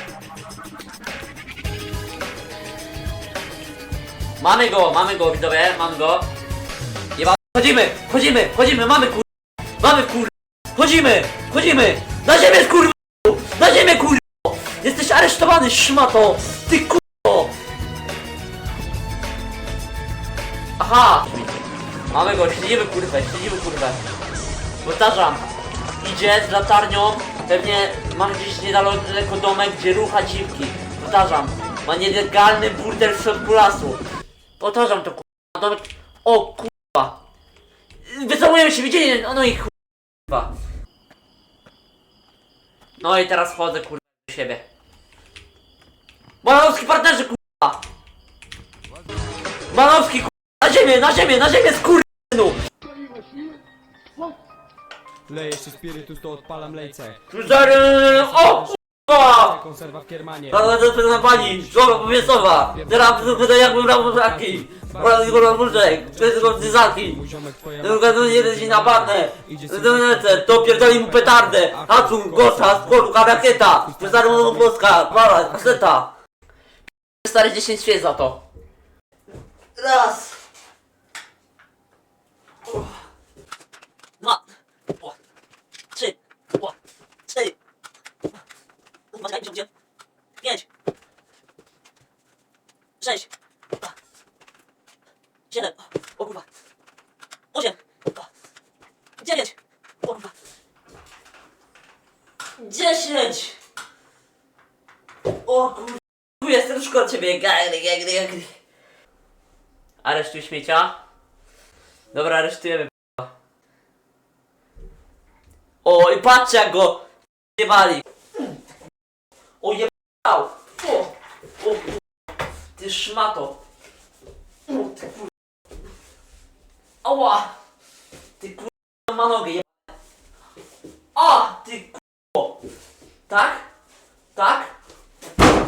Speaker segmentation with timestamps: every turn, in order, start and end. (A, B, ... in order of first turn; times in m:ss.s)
0:04.4-0:06.3 A
0:07.2-0:09.2 A
0:09.8-0:17.5 A
0:20.8-0:24.0 A
0:24.8-0:25.4 A
0:26.0-0:34.0 A
0:34.6-0:37.2 A
0:38.0-0:39.7 A
0:40.3-0:40.5 A
0:43.0-0:44.6 A
0:46.4-0:47.8 A
0:49.7-0:52.6 A
0:55.3-0:58.8 B
0:57.3-0:59.6 A
0:59.4-1:00.7 B
1:00.5-1:07.2 A
1:01.3-1:01.8 B
1:02.7-1:15.8 B
1:07.8-1:16.1 A
1:17.2-1:18.4 A
1:19.8-1:20.4 A
1:22.7-1:22.9 A
1:25.9-1:26.7 A
1:27.3-1:27.5 A
1:29.1-1:29.7 A
1:33.0-1:33.3 A
1:35.5-1:36.4 A
1:37.5-1:38.2 A
1:39.2-1:40.3 A
1:42.6-1:43.6 A
1:45.4-1:48.5 A
1:50.0-1:51.0 A
1:52.1-1:53.3 A
1:55.8-1:57.0 A
1:57.6-1:58.4 A
1:59.6-2:02.0 A
2:02.8-2:03.6 A
2:04.7-2:05.3 A
2:07.0-2:07.5 A
2:08.4-2:09.7 A
2:11.1-2:12.6 A
2:13.3-2:13.7 A
2:14.3-2:14.7 A